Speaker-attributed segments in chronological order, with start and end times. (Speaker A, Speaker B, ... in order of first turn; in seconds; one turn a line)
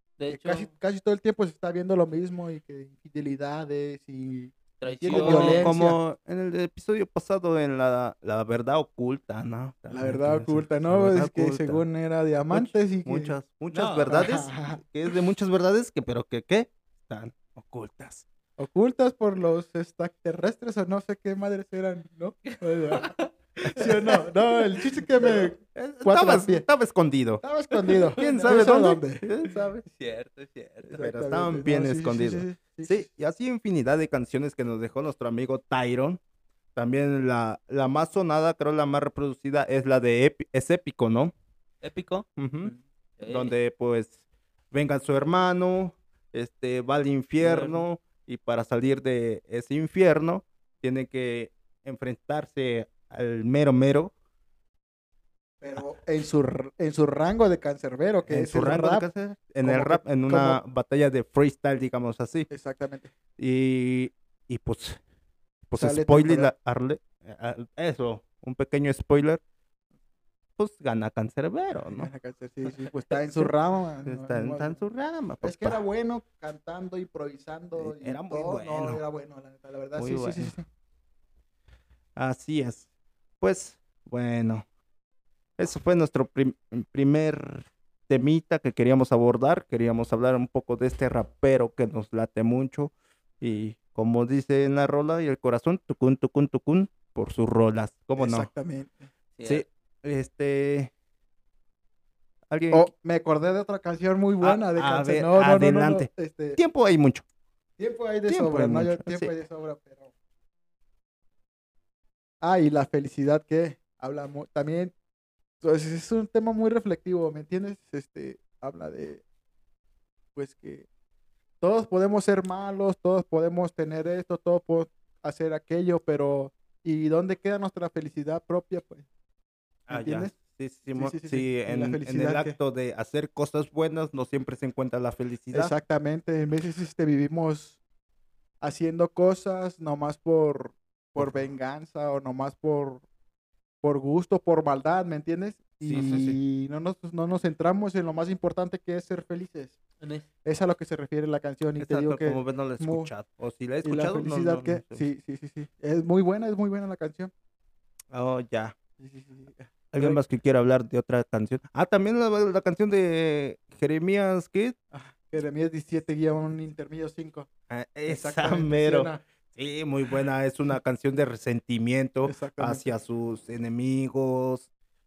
Speaker A: 0.2-0.7
Speaker B: 0.3-6.0
Speaker A: 4.8-5.8
Speaker C: 5.0-11.8
Speaker B: 9.9-13.3
Speaker C: 12.5-18.3
Speaker A: 13.7-14.2
Speaker B: 14.0-14.8
Speaker B: 18.6-26.7
Speaker A: 22.4-24.3
Speaker C: 25.2-27.4
Speaker B: 27.4-29.2
Speaker A: 27.9-28.7
Speaker C: 28.2-29.8
Speaker A: 29.9-31.0
Speaker B: 30.8-33.1
Speaker C: 30.9-36.2
Speaker C: 36.8-41.3
Speaker A: 41.8-43.5
Speaker C: 42.4-44.2
Speaker C: 44.7-54.1
Speaker A: 47.4-47.9
Speaker B: 55.6-59.1
Speaker C: 58.3-62.5
Speaker B: 59.6-60.6
Speaker B: 62.5-63.1
Speaker C: 63.4-65.0
Speaker C: 65.7-69.4
Speaker B: 65.7-66.5
Speaker C: 70.6-72.1
Speaker B: 71.8-74.8
Speaker C: 74.0-75.8
Speaker B: 75.4-80.6
Speaker C: 77.8-79.0
Speaker C: 80.0-80.5
Speaker C: 82.2-82.9
Speaker C: 83.4-84.7
Speaker C: 85.6-98.5
Speaker B: 98.2-99.1
Speaker A: 99.4-99.6
Speaker C: 99.4-100.9
Speaker C: 102.5-102.9
Speaker B: 102.7-106.6
Speaker C: 104.4-107.2
Speaker B: 107.8-110.1
Speaker C: 108.3-109.3
Speaker B: 112.4-114.9
Speaker B: 115.6-119.2
Speaker B: 120.3-120.9
Speaker B: 121.6-129.1
Speaker C: 129.9-135.8
Speaker B: 129.9-130.3
Speaker B: 130.9-132.6
Speaker B: 135.5-137.8
Speaker B: 138.6-143.0
Speaker B: 143.8-149.8
Speaker C: 145.8-146.4
Speaker A: 150.0-150.3
Speaker B: 150.4-153.1
Speaker C: 151.8-155.0
Speaker B: 153.8-157.3
Speaker C: 158.1-158.8
Speaker B: 159.0-160.2
Speaker C: 159.9-164.8
Speaker B: 164.9-167.5
Speaker C: 167.7-174.7
Speaker B: 168.1-169.2
Speaker B: 172.3-172.9